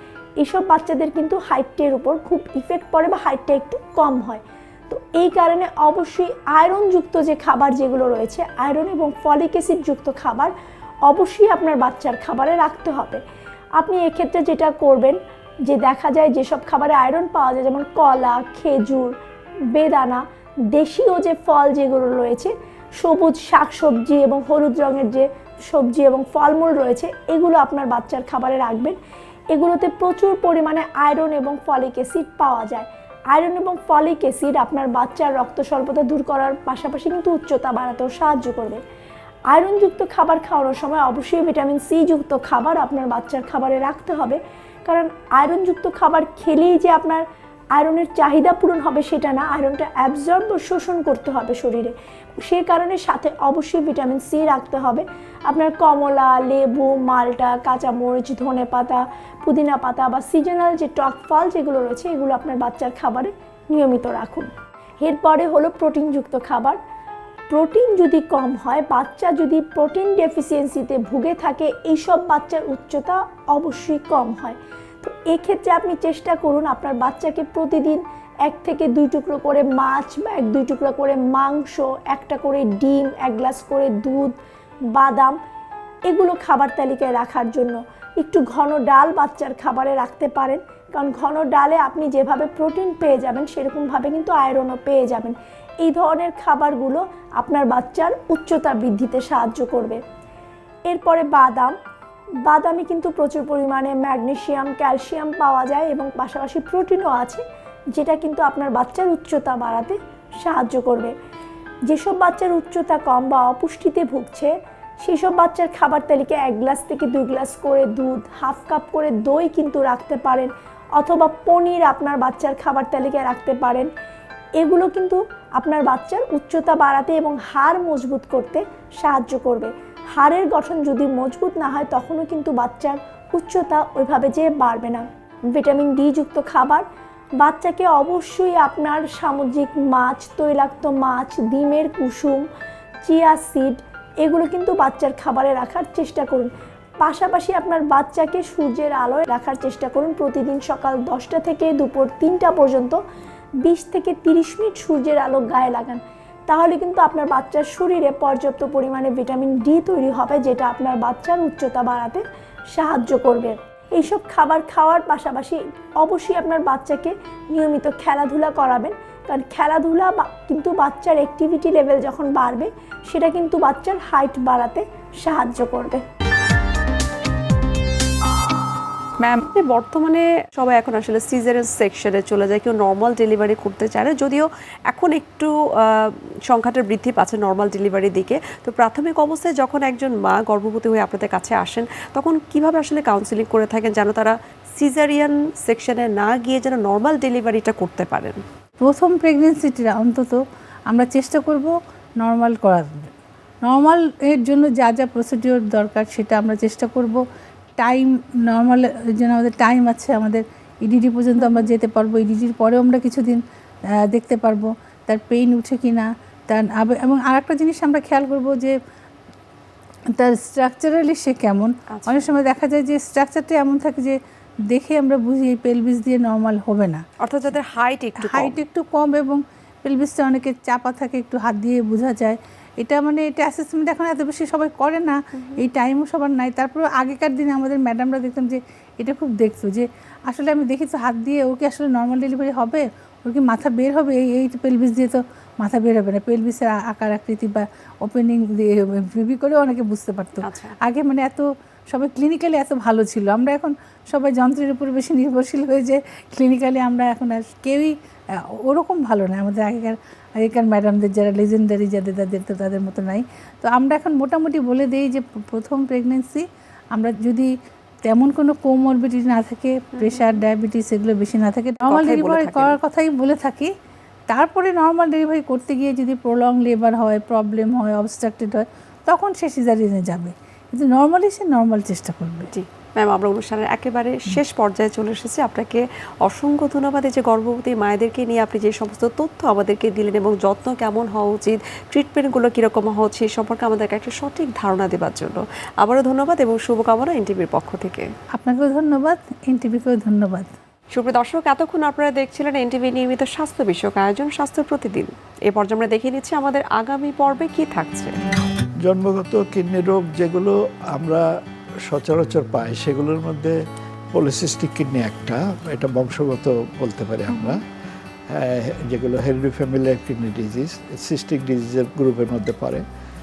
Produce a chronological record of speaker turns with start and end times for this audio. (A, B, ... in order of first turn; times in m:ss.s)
0:00.4-0:10.5 A
0:11.1-0:13.2 A
0:13.8-0:19.1 A
0:19.7-0:29.0 A
0:29.5-0:38.8 A
0:39.5-0:47.2 A
0:47.7-1:04.5 A
1:05.0-1:06.8 A
1:07.5-1:24.3 A
1:24.9-1:25.4 A
1:26.1-1:40.0 A
1:40.9-1:41.7 A
1:42.5-1:47.4 A
1:47.9-1:51.1 A
1:51.9-2:03.9 A
2:04.6-2:16.8 A
2:17.4-2:22.4 A
2:23.0-2:26.5 A
2:27.0-2:33.0 A
2:33.6-2:42.2 A
2:42.7-2:56.0 A
2:59.2-3:18.4 B
3:18.8-3:23.1 C
3:23.6-3:27.2 C
3:27.8-3:33.4 C
3:31.4-3:31.7 B
3:34.0-3:38.7 C
3:40.2-3:44.2 C
3:41.9-3:42.3 B
3:44.7-3:47.0 C
3:47.2-3:48.6 B
3:48.2-4:27.5 C
3:55.4-3:55.6 B
4:10.4-4:10.8 B
4:28.1-4:33.7 C
4:30.0-4:30.4 B
4:31.8-4:32.8 B
4:34.3-4:42.5 C
4:42.5-4:58.0 B
4:58.4-5:00.5 C
5:00.9-5:08.1 B
5:08.8-5:11.2 D
5:11.9-5:13.5 D
5:14.1-5:17.6 D
5:18.3-5:22.8 D